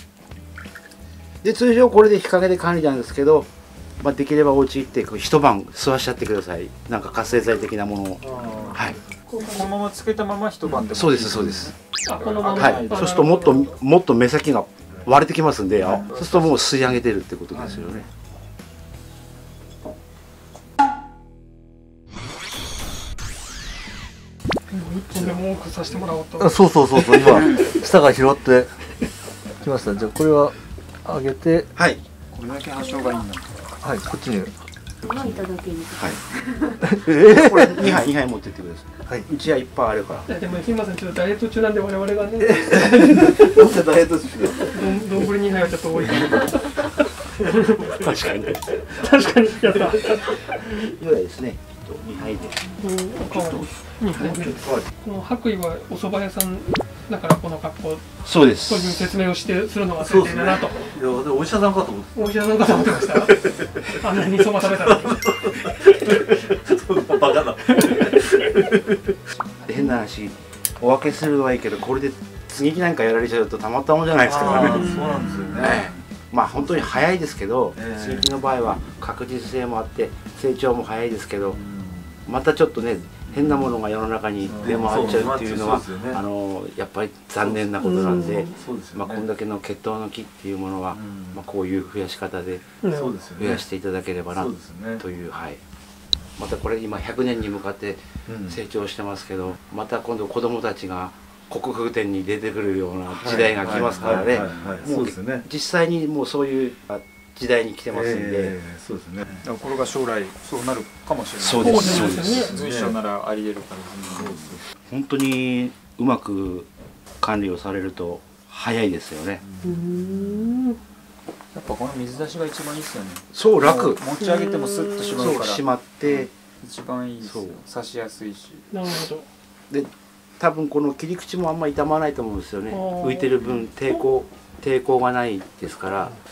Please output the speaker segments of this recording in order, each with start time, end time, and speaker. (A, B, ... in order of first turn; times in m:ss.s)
0:01.4-0:09.0 A
0:08.2-0:09.1 B
0:08.4-0:08.7 C
0:09.3-0:09.7 D
0:09.4-0:13.4 C
0:10.7-0:11.7 A
0:12.0-0:13.8 D
0:12.6-0:18.0 A
0:16.1-0:16.6 C
0:17.5-0:18.0 B
0:24.7-0:26.5 D
0:26.4-0:28.7 B
0:29.6-0:31.7 B
0:31.8-0:32.0 A
0:32.3-0:33.5 C
0:32.8-0:33.2 E
0:33.8-0:34.6 B
0:35.0-0:36.8 E
0:36.8-0:38.0 B
0:37.0-0:40.3 A
0:40.3-0:43.6 D
0:42.4-0:45.1 B
0:44.6-0:48.0 D
0:46.1-0:46.4 B
0:47.4-0:48.0 B
0:47.8-0:48.8 A
0:48.8-0:50.6 D
0:50.8-0:52.6 A
0:52.8-0:58.1 D
0:54.1-0:54.9 B
0:58.2-0:59.1 A
0:58.6-1:00.9 D
1:00.0-1:09.2 B
1:02.1-1:05.3 D
1:05.9-1:06.1 D
1:07.6-1:08.4 D
1:09.6-1:14.9 A
1:14.2-1:16.0 B
1:14.6-1:15.6 D
1:15.6-1:21.6 A
1:17.7-1:18.3 B
1:21.5-1:22.2 B
1:22.2-1:32.7 A
1:24.5-1:26.2 B
1:27.4-1:29.2 B
1:27.8-1:28.6 D
1:30.9-1:31.4 B
1:32.8-1:33.2 D
1:32.8-1:33.6 B
1:33.4-1:35.6 A
1:34.3-1:35.0 B
1:36.4-1:48.5 A
1:38.3-1:38.6 B
1:43.1-1:45.5 B
1:43.7-1:44.8 C
1:47.9-1:49.4 B
1:49.4-1:54.6 C
1:51.4-1:52.5 A
1:51.6-1:52.5 D
1:52.5-1:53.0 B
1:54.2-1:54.6 B
1:54.9-1:56.7 A
1:57.2-1:59.4 A
1:59.4-2:00.5 B
1:59.6-2:00.8 D
2:01.5-2:08.6 C
2:03.3-2:04.0 A
2:05.1-2:06.3 A
2:07.2-2:07.6 A
2:08.7-2:09.2 D
2:09.7-2:16.1 A
2:12.7-2:14.1 D